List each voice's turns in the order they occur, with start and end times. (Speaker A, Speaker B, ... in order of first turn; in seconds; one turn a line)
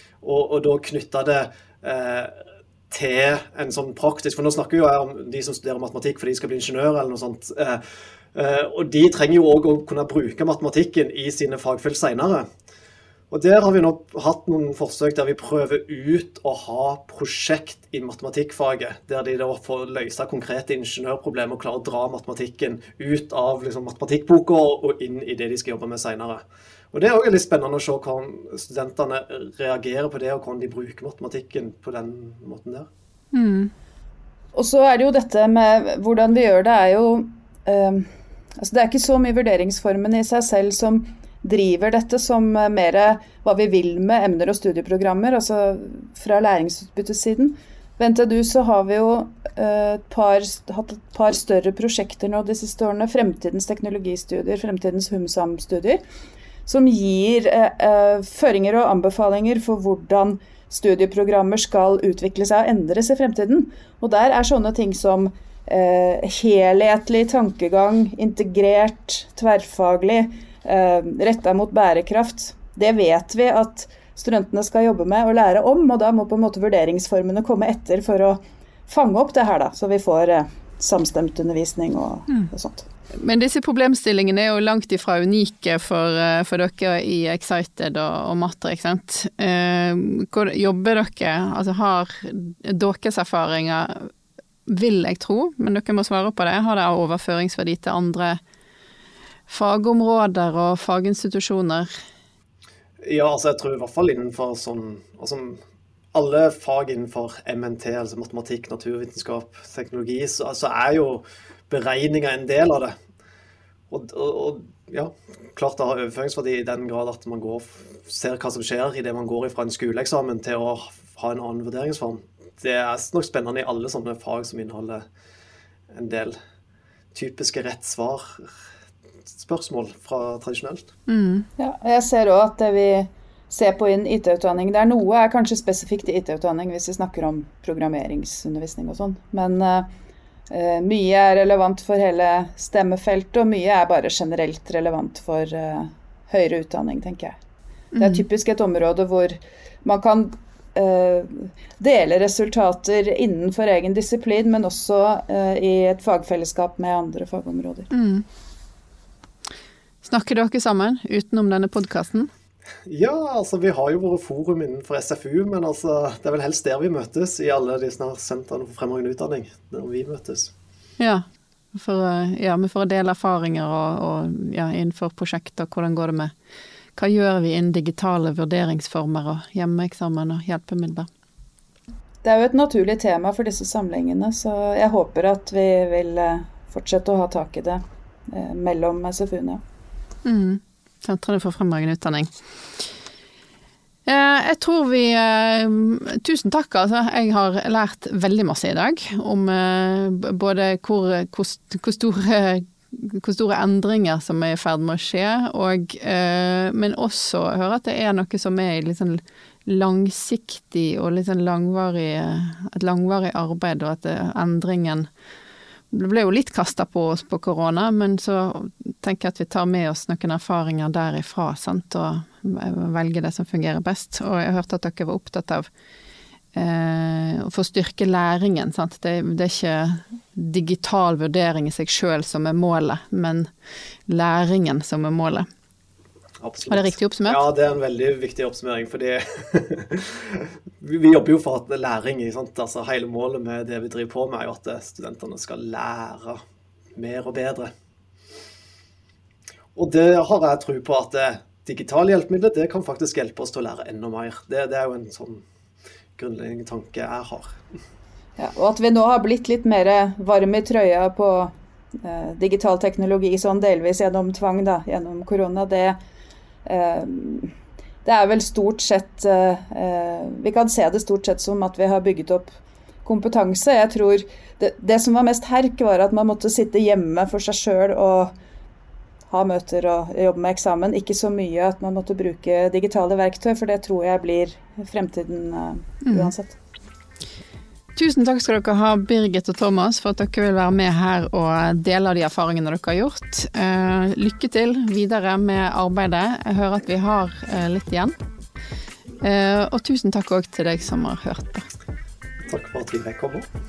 Speaker A: 0.2-7.8
Speaker A: 8.3-12.4
Speaker A: 13.3-32.9
Speaker B: 33.3-33.7
Speaker C: 34.5-56.0
Speaker C: 56.6-82.8
Speaker B: 83.2-94.1
Speaker B: 94.7-98.4
Speaker B: 99.5-101.9
Speaker A: 103.0-105.6
Speaker A: 106.1-112.9
Speaker A: 113.9-125.0
Speaker A: 125.9-126.4
Speaker A: 127.1-128.5
Speaker A: 129.3-130.9
Speaker B: 131.1-131.5
Speaker C: 131.6-139.9
Speaker C: 140.5-147.4
Speaker B: 147.9-148.2
Speaker C: 148.0-157.9
Speaker B: 157.9-158.2
Speaker B: 160.0-162.3
Speaker A: 162.9-170.5
Speaker B: 171.0-176.3
Speaker B: 176.9-181.1
Speaker C: 182.2-189.6
Speaker B: 190.2-192.8
Speaker B: 194.1-215.1
Speaker B: 215.9-225.7
Speaker B: 226.5-233.5
Speaker B: 234.1-235.5
Speaker A: 236.4-246.4
Speaker B: 236.7-237.4
Speaker A: 246.9-247.7
Speaker A: 249.7-255.4
Speaker A: 256.2-257.5
Speaker C: 258.4-266.0
Speaker C: 266.6-267.5
Speaker C: 268.0-272.5
Speaker C: 273.0-278.3
Speaker C: 279.3-286.6
Speaker B: 286.1-286.3
Speaker B: 287.9-298.1
Speaker B: 299.2-301.6
Speaker A: 302.5-303.5